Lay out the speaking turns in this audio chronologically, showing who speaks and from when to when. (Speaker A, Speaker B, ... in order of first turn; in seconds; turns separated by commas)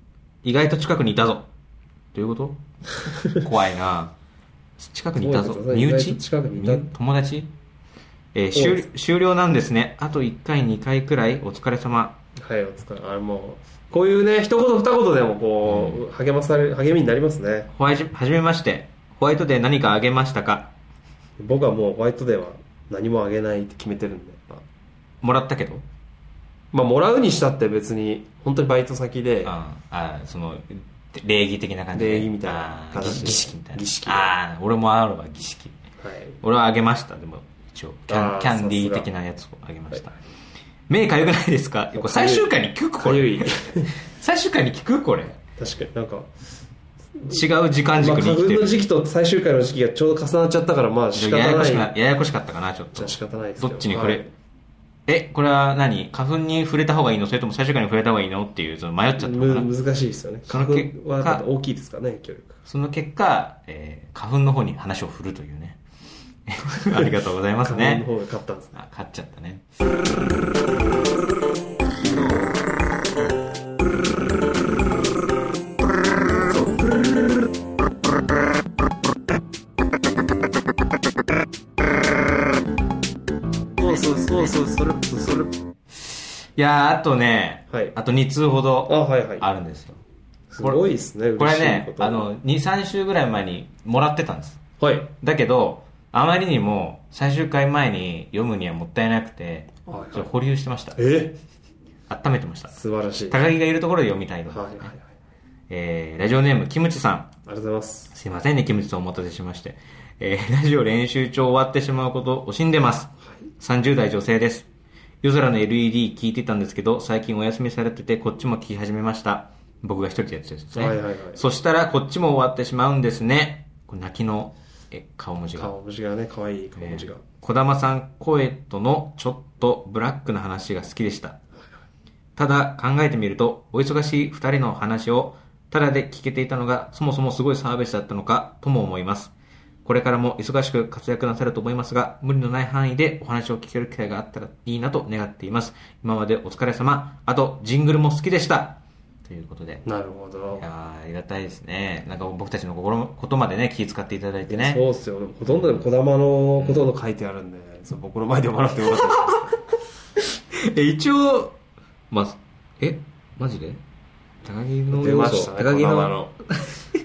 Speaker A: 0.4-1.5, Speaker A: 2.1-2.6, Speaker B: 3.0-3.4, Speaker A: 3.3-4.1, Speaker A: 4.8-7.5, Speaker B: 5.2-6.9, Speaker A: 8.3-12.2, Speaker B: 8.5-8.9, Speaker B: 12.4-17.7, Speaker A: 15.7-16.0, Speaker A: 17.7-20.7, Speaker B: 21.4-24.6, Speaker A: 25.2-25.8, Speaker B: 26.7-29.5, Speaker A: 29.4-35.8, Speaker B: 31.9-34.4, Speaker B: 36.0-36.3, Speaker A: 36.4-40.2, Speaker B: 38.1-39.1, Speaker A: 40.9-45.4, Speaker B: 41.9-42.5, Speaker B: 43.0-43.9, Speaker B: 45.5-46.3, Speaker A: 47.2-48.8, Speaker B: 48.0-51.9, Speaker A: 51.1-54.2, Speaker B: 52.9-54.3, Speaker A: 55.1-59.7, Speaker B: 59.2-62.6, Speaker A: 60.5-61.4, Speaker A: 62.7-65.8, Speaker A: 66.5-68.0, Speaker B: 67.6-68.7, Speaker A: 68.7-69.7, Speaker B: 76.4-77.4, Speaker B: 83.8-85.5, Speaker A: 83.8-84.5, Speaker A: 86.5-90.0, Speaker B: 88.9-89.5, Speaker B: 90.5-92.2, Speaker A: 91.4-94.6, Speaker B: 94.8-95.1, Speaker A: 95.2-101.0, Speaker B: 99.8-100.2, Speaker B: 101.0-101.3, Speaker A: 102.1-102.7, Speaker B: 102.7-103.4, Speaker A: 103.3-104.9, Speaker B: 104.5-105.0, Speaker A: 105.7-107.3, Speaker B: 107.5-108.1, Speaker A: 108.1-114.7, Speaker A: 115.2-125.7, Speaker B: 120.7-121.4, Speaker B: 125.5-127.2, Speaker A: 126.8-131.4, Speaker A: 132.3-139.3, Speaker A: 139.8-149.8, Speaker B: 149.8-150.6, Speaker A: 150.6-154.8, Speaker B: 154.5-159.6, Speaker A: 155.5-155.8, Speaker A: 156.6-156.9, Speaker A: 160.2-161.6, Speaker A: 162.1-163.8, Speaker A: 164.4-166.8, Speaker B: 164.9-166.3